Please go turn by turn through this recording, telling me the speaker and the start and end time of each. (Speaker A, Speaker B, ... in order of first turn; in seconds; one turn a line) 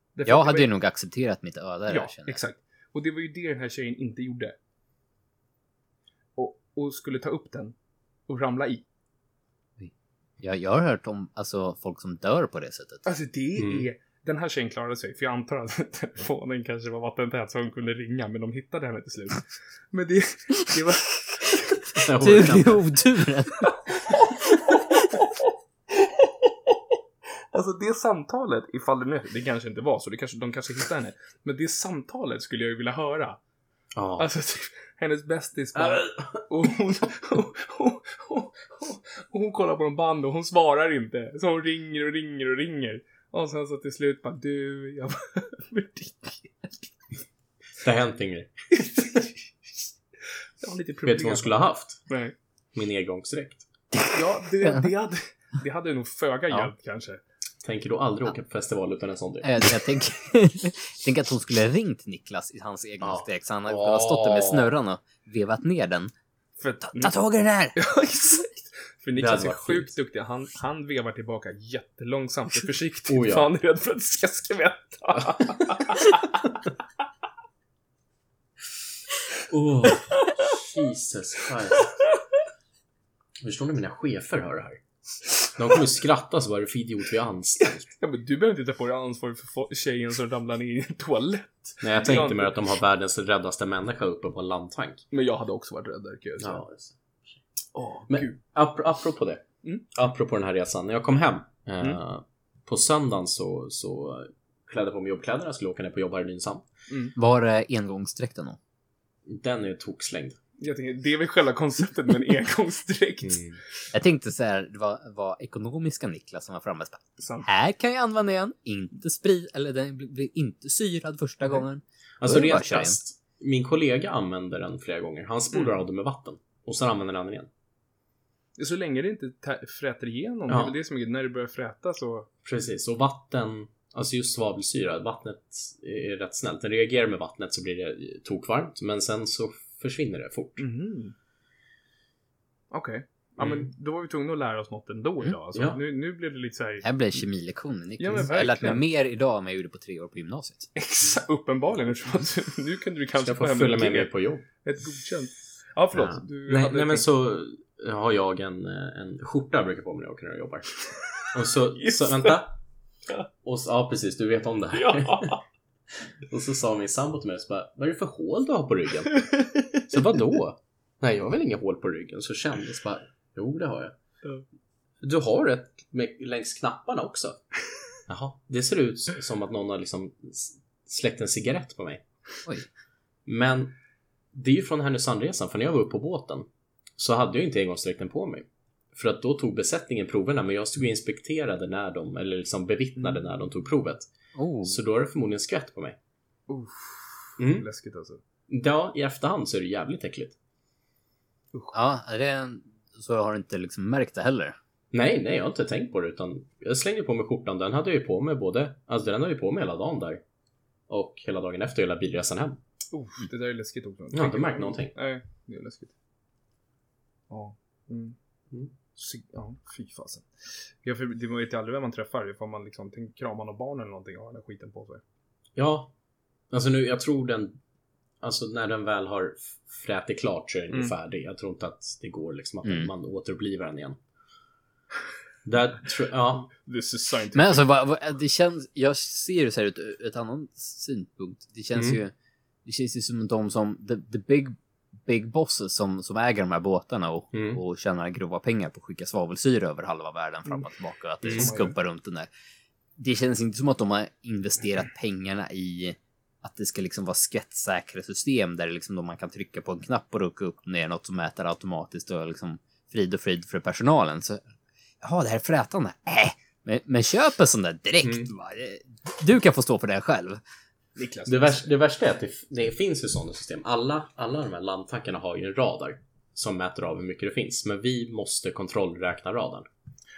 Speaker A: 0.1-0.7
Speaker B: 0.2-2.4
Speaker A: 1.9-4.5
Speaker A: 6.3-7.7
Speaker A: 8.3-8.8
Speaker B: 9.8-13.0
Speaker A: 13.0-22.0
Speaker C: 13.6-13.8
Speaker C: 21.9-22.8
Speaker B: 22.1-23.7
Speaker A: 23.9-25.4
Speaker A: 25.9-26.7
Speaker A: 27.5-33.4
Speaker C: 33.9-34.3
Speaker A: 34.2-46.9
Speaker C: 35.7-36.5
Speaker C: 47.8-48.5
Speaker A: 48.8-49.3
Speaker A: 50.6-52.3
Speaker C: 51.0-52.0
Speaker C: 52.7-53.6
Speaker A: 54.1-57.2
Speaker C: 57.6-59.7
Speaker B: 59.4-66.1
Speaker C: 63.0-64.7
Speaker A: 66.6-67.1
Speaker B: 66.8-67.8
Speaker A: 67.7-76.4
Speaker C: 69.2-69.9
Speaker C: 73.1-73.5
Speaker C: 75.2-75.7
Speaker C: 79.5-81.9
Speaker A: 79.9-80.6
Speaker A: 81.7-82.1
Speaker C: 83.4-84.8
Speaker C: 85.5-87.9
Speaker A: 88.0-92.5
Speaker C: 91.8-95.0
Speaker A: 95.1-96.6
Speaker C: 96.4-97.4
Speaker A: 97.7-98.3
Speaker C: 98.1-106.6
Speaker A: 106.9-107.2
Speaker B: 107.2-108.6
Speaker C: 109.3-110.4
Speaker A: 110.6-113.5
Speaker C: 113.2-113.6
Speaker B: 113.9-123.0
Speaker A: 117.2-117.5
Speaker C: 122.2-127.5
Speaker A: 125.5-125.8
Speaker A: 128.6-132.3
Speaker C: 130.5-130.8
Speaker C: 132.4-140.6
Speaker A: 140.6-141.1
Speaker A: 142.7-146.8
Speaker C: 143.4-143.7
Speaker C: 145.5-145.8
Speaker B: 146.8-150.7
Speaker A: 148.0-148.8
Speaker A: 150.8-154.1
Speaker C: 153.2-154.4
Speaker A: 154.6-157.1
Speaker C: 155.9-160.7
Speaker A: 161.1-162.4
Speaker C: 161.3-162.6
Speaker C: 163.4-165.4
Speaker A: 164.7-165.4
Speaker C: 166.2-173.9
Speaker A: 169.2-169.8
Speaker C: 175.0-177.4
Speaker C: 178.1-182.0
Speaker C: 183.2-183.7
Speaker C: 184.3-194.1
Speaker A: 193.0-193.2
Speaker B: 194.3-194.8
Speaker C: 194.6-196.0
Speaker A: 196.5-198.2
Speaker C: 197.4-197.7
Speaker C: 198.5-200.3
Speaker B: 201.7-204.6
Speaker C: 204.9-210.2
Speaker C: 210.9-212.6
Speaker A: 212.9-215.9
Speaker C: 214.1-214.9
Speaker A: 217.3-218.2
Speaker A: 218.9-220.3
Speaker A: 220.8-225.0
Speaker C: 225.6-225.9
Speaker C: 226.5-227.6
Speaker C: 228.2-234.0
Speaker B: 232.6-232.9
Speaker C: 235.4-236.5
Speaker A: 236.6-237.6
Speaker B: 237.3-242.1
Speaker C: 241.7-242.0
Speaker B: 242.6-252.3
Speaker C: 247.3-247.6
Speaker C: 251.2-251.5
Speaker A: 251.3-251.7
Speaker B: 253.0-264.4
Speaker B: 265.0-270.4
Speaker C: 268.0-268.3
Speaker A: 270.9-271.7
Speaker C: 271.2-279.7